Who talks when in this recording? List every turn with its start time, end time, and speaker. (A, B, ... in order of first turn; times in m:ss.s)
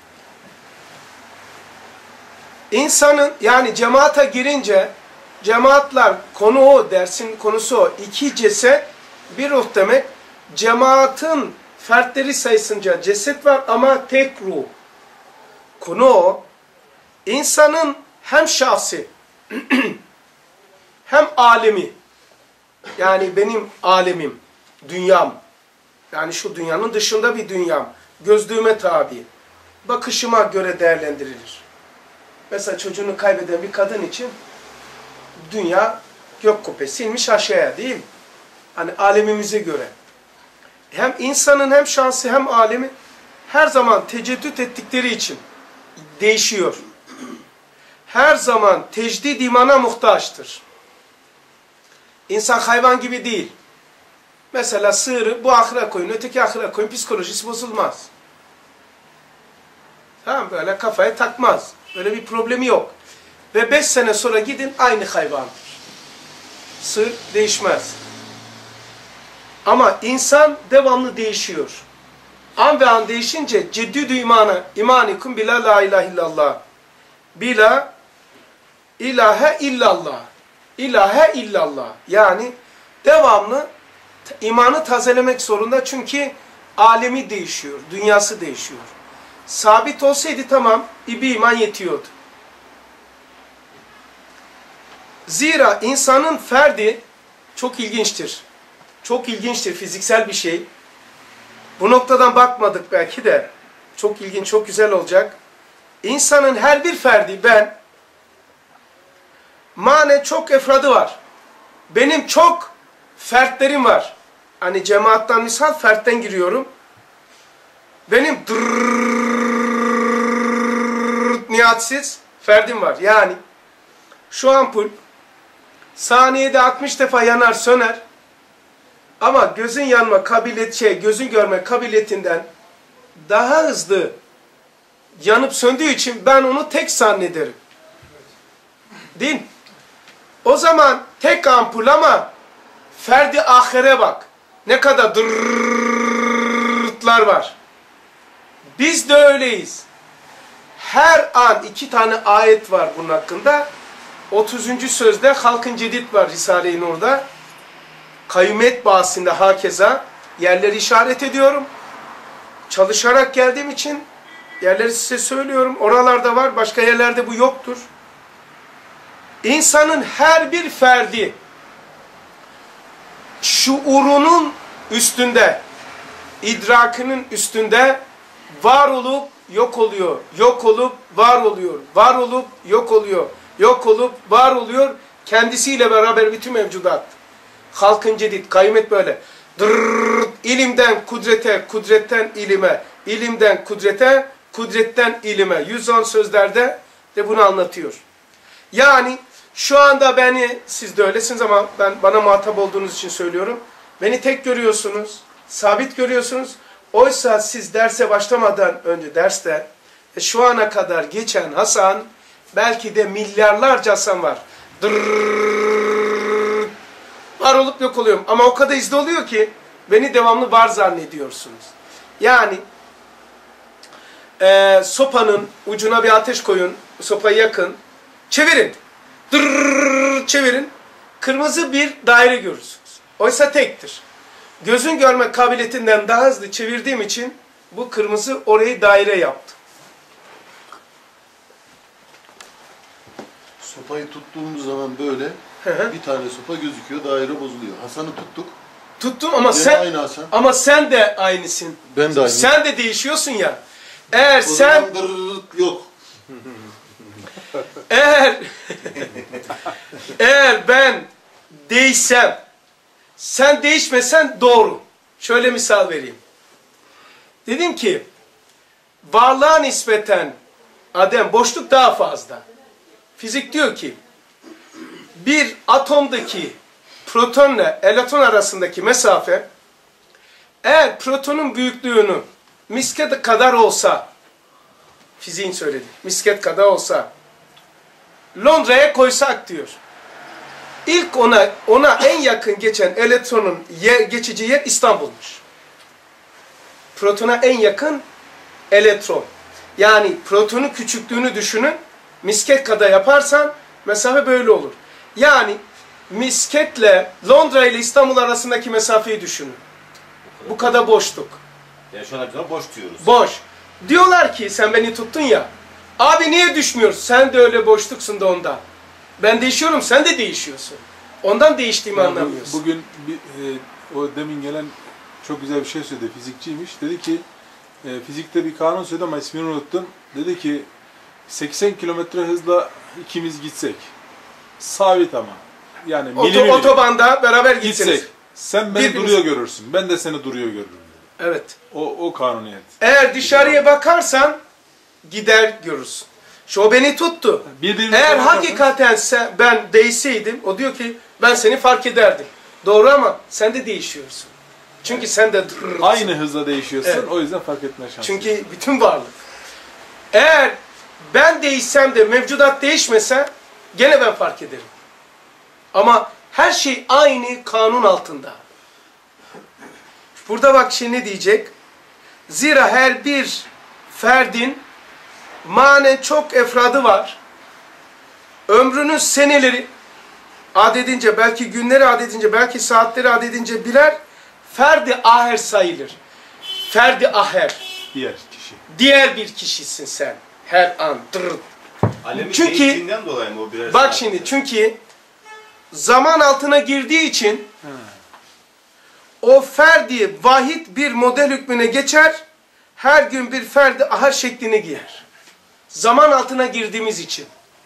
0:02.7-0:14.7 A
0:15.8-0:16.4 A
0:17.2-0:20.0 A
0:21.0-0:21.9 A
0:23.0-0:25.4 A
0:26.1-0:29.3 A
0:29.8-0:31.6 A
0:32.5-0:34.3 A
0:35.4-0:38.0 A
0:38.7-0:39.9 A
0:40.9-0:42.9 A
0:43.5-0:45.4 A
0:46.0-0:46.8 A
0:48.1-0:50.6 A
0:52.3-0:53.5 A
0:54.5-0:58.1 A
1:00.2-1:02.9 A
1:03.5-1:05.8 A
1:06.8-1:08.0 A
1:09.6-1:11.8 A
1:12.6-1:16.6 A
1:17.3-1:17.9 A
1:19.0-1:23.7 A
1:24.2-1:28.9 A
1:29.5-1:32.1 A
1:35.3-1:37.0 A
1:37.6-1:38.4 A
1:39.0-1:40.6 A
1:41.8-1:45.4 A
1:46.0-1:47.8 A
1:49.7-1:51.2 A
1:51.9-1:56.7 A
1:58.1-2:03.4 A
2:04.3-2:04.9 A
2:06.0-2:08.0 A
2:09.2-2:12.5 A
2:13.2-2:14.2 A
2:15.2-2:17.6 A
2:19.1-2:19.5 A
2:20.4-2:22.3 A
2:22.9-2:27.6 A
2:28.8-2:29.8 A
2:30.8-2:33.7 A
2:34.3-2:37.2 A
2:38.3-2:41.7 A
2:42.7-2:44.0 A
2:44.6-2:47.8 A
2:49.4-2:51.4 A
2:53.4-2:55.6 A
2:56.4-2:58.0 A
2:58.5-3:07.2 A
3:07.7-3:18.0 A
3:18.7-3:36.7 A
3:37.4-3:42.6 A
3:44.4-3:47.8 A
3:48.3-3:48.8 A
3:49.3-3:54.0 A
3:54.6-3:59.6 A
4:03.6-4:08.6 B
4:05.6-4:05.9 A
4:09.0-4:13.6 A
4:09.5-4:10.3 B
4:11.9-4:12.5 B
4:14.1-4:14.9 A
4:14.4-4:15.9 B
4:17.9-4:19.1 A
4:20.1-4:22.4 A
4:23.2-4:26.2 A
4:27.4-4:28.1 A
4:29.0-4:30.4 A
4:30.9-4:32.4 A
4:33.2-4:34.0 A
4:35.2-4:39.4 A
4:40.6-4:44.1 A
4:45.2-4:47.1 A
4:48.3-4:49.8 A
4:50.8-4:55.4 A
4:56.9-4:58.0 A
4:58.7-5:09.6 A
5:10.2-5:10.7 C
5:10.5-5:11.4 A
5:11.9-5:13.2 C
5:13.0-5:18.6 A
5:19.2-5:22.6 A
5:21.9-5:27.2 D
5:27.8-5:30.7 D
5:31.3-5:33.9 D
5:34.6-5:36.8 D
5:36.2-5:38.1 A
5:37.6-5:41.0 D
5:38.7-5:39.2 A
5:41.2-5:41.6 A
5:41.7-5:43.6 D
5:42.8-5:44.4 A
5:45.0-5:56.1 A
5:47.4-5:48.7 D
5:55.8-5:58.3 D
5:58.0-5:59.2 A
6:00.1-6:04.7 A
6:05.7-6:08.4 A
6:10.2-6:11.5 A
6:12.3-6:14.6 A
6:15.4-6:17.2 A
6:18.5-6:19.7 A
6:20.5-6:26.0 A
6:26.7-6:27.6 A
6:27.9-6:28.6 D
6:28.7-6:31.4 A
6:32.0-6:34.4 C
6:32.1-6:32.8 A
6:33.7-6:34.8 A
6:35.7-6:37.5 A
6:37.6-6:37.9 D
6:39.2-6:42.2 A
6:42.8-6:45.0 A
6:45.7-6:47.3 A